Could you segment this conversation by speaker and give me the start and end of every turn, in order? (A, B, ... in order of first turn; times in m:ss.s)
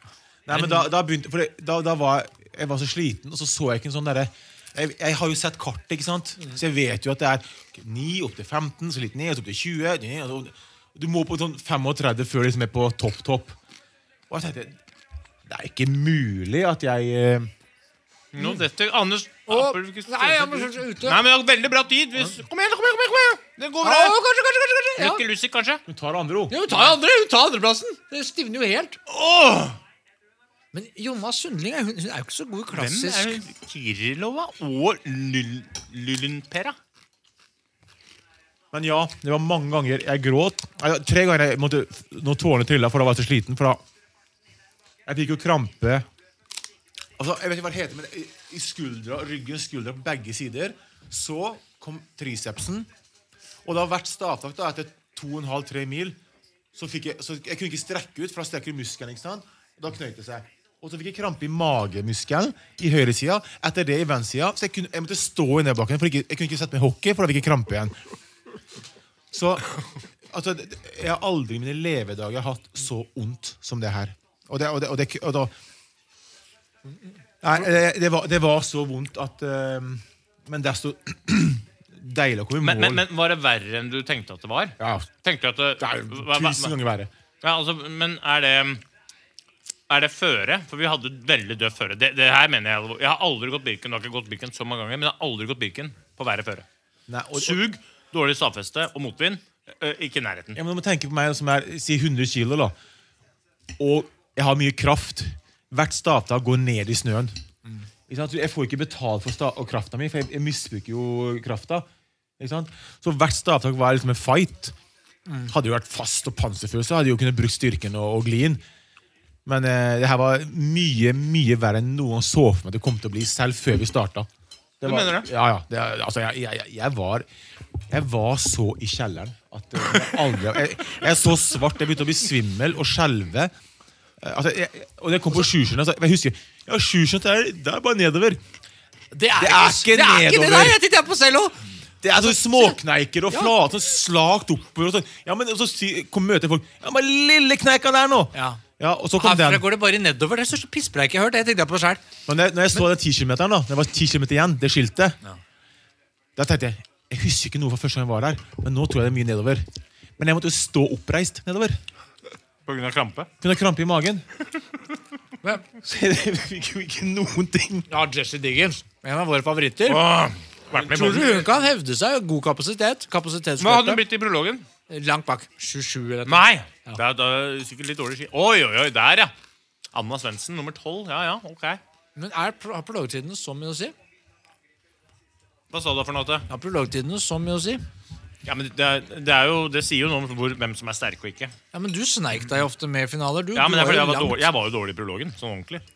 0:00.5-0:13.6 A
0:00.5-0:00.8 B
0:14.3-0:14.8 A
0:15.5-0:17.5 A
0:18.3-0:24.2 C
0:18.4-0:18.6 B
0:19.5-0:21.2 B
0:23.8-0:25.2 B
0:25.0-0:25.8 C
0:25.9-0:26.6 A
0:26.5-0:29.0 B
0:29.1-0:29.8 C
0:30.7-0:33.4 B
0:32.7-0:36.8 C
0:38.7-0:43.8 A
0:45.1-0:46.1 A
0:47.2-0:52.9 A
0:53.6-0:56.2 A
0:56.7-1:08.0 A
1:09.3-1:09.7 A
1:10.3-1:15.5 A
1:17.4-1:23.0 A
1:22.6-1:26.8 C
1:24.8-1:25.1 A
1:25.8-1:27.1 A
1:27.4-1:28.8 C
1:29.9-1:36.7 C
1:37.1-1:37.6 A
1:37.3-1:40.6 C
1:40.6-1:42.7 A
1:43.8-1:47.4 A
1:48.1-1:51.9 A
1:52.4-1:54.8 A
1:55.3-1:55.5 B
1:55.5-1:58.6 A
1:59.5-2:04.3 A
2:04.8-2:07.3 A
2:04.8-2:05.3 C
2:07.9-2:13.5 A
2:14.2-2:18.4 A
2:19.1-2:21.8 B
2:19.4-2:20.8 A
2:22.0-2:29.7 A
2:22.3-2:22.8 B
2:28.3-2:28.6 B
2:29.2-2:32.0 B
2:32.3-2:35.2 A
2:36.4-2:39.7 A
2:40.2-2:41.8 A
2:42.7-2:43.3 C
2:43.4-2:44.3 A
2:45.8-2:47.9 A
2:47.9-2:50.0 B
2:49.9-2:51.5 C
2:50.7-2:54.0 B
2:53.6-2:54.7 C
2:54.9-2:57.0 B
2:56.3-2:59.3 C
2:59.9-3:01.8 C
3:02.2-3:03.9 B
3:05.7-3:06.5 C
3:06.5-3:07.8 B
3:08.4-3:11.6 C
3:11.7-3:14.5 B
3:13.6-3:15.8 C